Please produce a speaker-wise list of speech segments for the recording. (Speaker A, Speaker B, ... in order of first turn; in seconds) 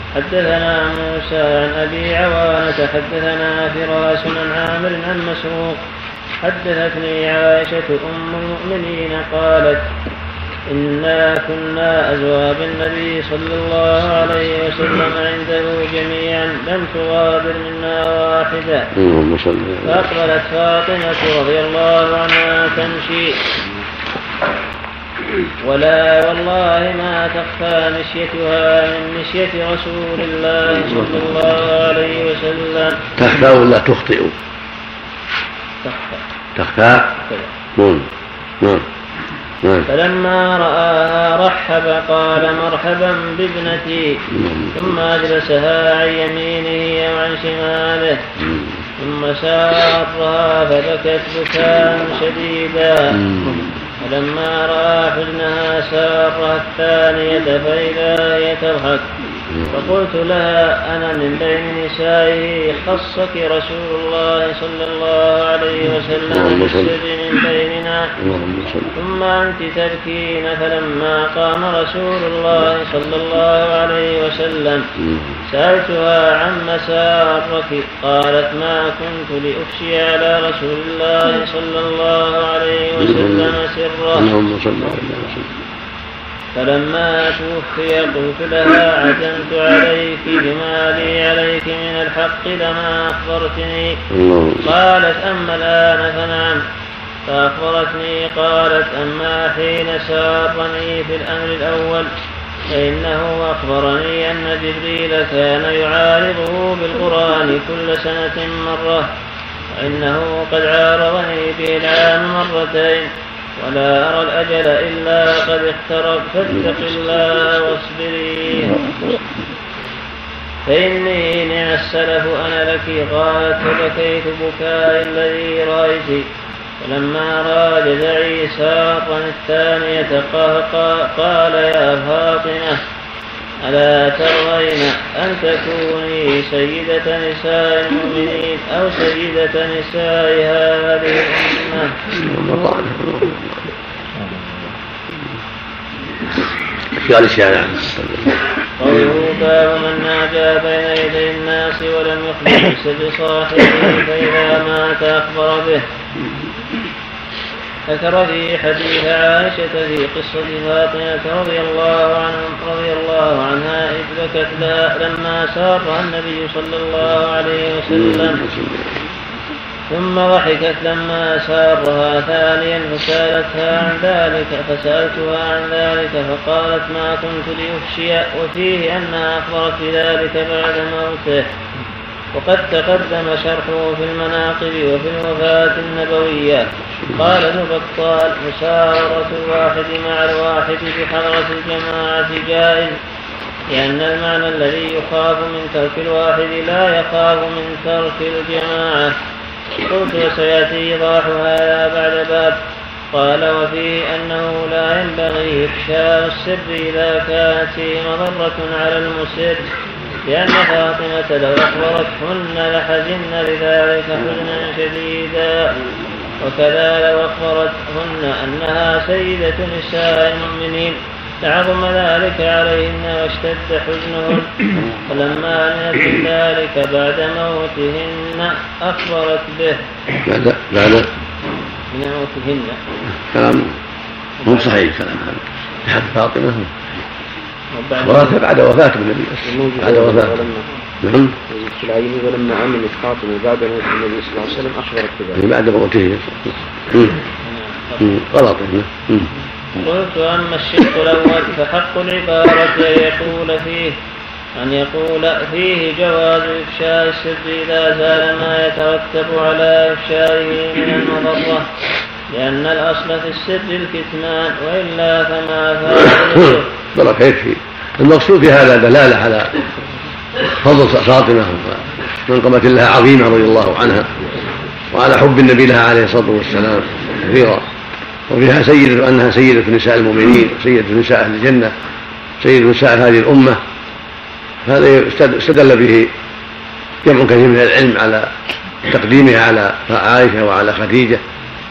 Speaker A: 0.1-5.8, 6.4-9.9, 10.7-18.9, 19.8-23.4, 25.6-33.0, 35.8-36.2, 39.9-44.1, 44.7-48.2, 49.0-53.2, 54.0-59.0, 59.7-68.1, 68.9-74.8, 75.5-84.3, 86.5-94.0, 94.6-96.6, 97.3-102.1, 102.7-109.1, 109.7-118.8, 120.7-126.2, 126.8-132.8, 133.6-142.0, 148.8-155.8, 157.9-168.4, 169.9-181.5, 182.3-193.0, 193.7-199.1, 199.8-202.6, 203.1-209.6, 210.2-215.7, 216.4-229.8, 231.9-232.8, 234.4-234.7, 237.7-238.4, 247.4-248.1, 249.8-253.9, 254.6-261.6, 262.3-266.7
Speaker B: 18.9-20.1, 33.2-34.3, 36.5-37.1, 37.8-38.1, 38.6-38.9, 39.6-39.9, 44.3-44.8, 53.2-53.6, 59.5-59.9, 66.3-66.9, 68.2-68.9, 75.0-75.4, 83.0-83.5, 84.2-85.5, 94.1-94.7, 142.2-143.6, 146.9-148.3, 167.9-169.0, 230.2-231.1, 233.3-233.7, 234.4-236.7, 238.0-240.4, 241.0-241.3, 245.3-247.2, 248.0-249.3, 266.3-269.6, 270.5-274.2, 274.9-277.6, 278.3-281.7, 282.4-283.6, 284.6-286.1, 287.0-288.3, 288.8-291.2
Speaker C: 239.4-240.7, 241.5-245.4